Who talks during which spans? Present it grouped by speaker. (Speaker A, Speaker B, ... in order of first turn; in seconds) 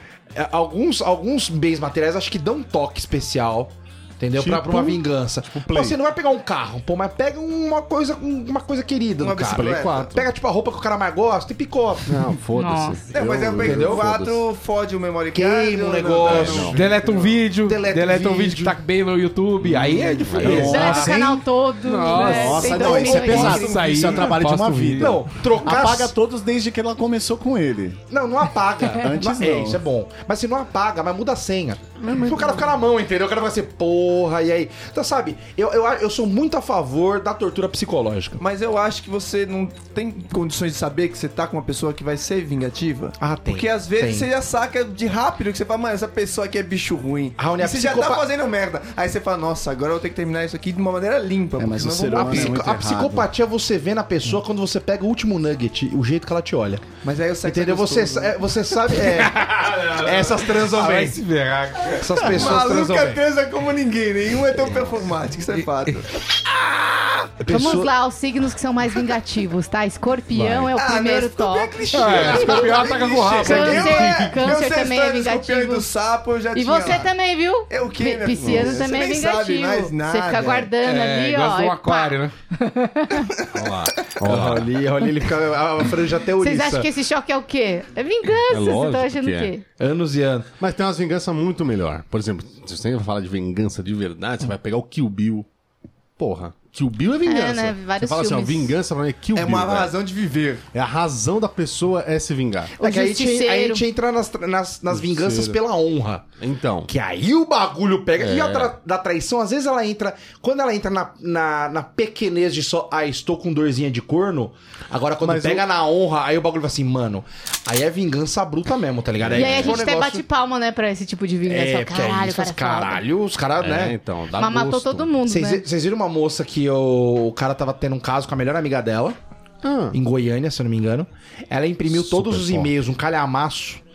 Speaker A: 0.3-12.2, 13.6-14.1, 15.3-18.8, 20.3-21.4, 25.0-26.1, 28.1-38.4, 43.2-44.3, 47.4-48.2, 52.1-56.9, 57.4-61.2, 62.0-63.2, 66.6-67.9, 84.2-86.9, 89.8-90.5, 102.8-106.2, 106.9-120.2, 121.5-124.0, 125.3-129.2, 129.9-133.8
Speaker B: 4.3-6.0, 9.5-10.3, 12.1-14.4, 16.2-16.9, 19.6-20.8, 32.0-32.7, 70.3-70.7, 78.4-78.8, 83.5-84.7, 88.5-89.5, 90.6-95.5, 96.2-99.9, 100.7-102.7, 104.9-105.6, 106.4-106.9, 108.2-108.8, 115.2-115.7, 119.2-119.8, 123.6-125.2, 129.6-130.0, 131.9-132.7
Speaker C: 9.2-10.1, 13.1-17.2, 23.0-24.4, 38.4-52.7, 57.0-58.4, 62.3-66.0, 70.7-77.1, 77.7-80.7, 99.3-100.7
Speaker D: 12.6-13.0, 20.5-23.8, 67.5-72.8, 73.4-75.9, 76.5-83.3, 86.4-89.6, 97.2-98.8, 102.8-103.8, 119.3-123.0, 124.4-125.6
Speaker E: 16.7-21.1, 21.8-25.2, 59.0-62.5, 65.5-66.0, 71.9-74.2, 80.8-82.3
Speaker F: 20.4-21.4, 22.1-28.0, 29.0-29.8, 51.6-53.3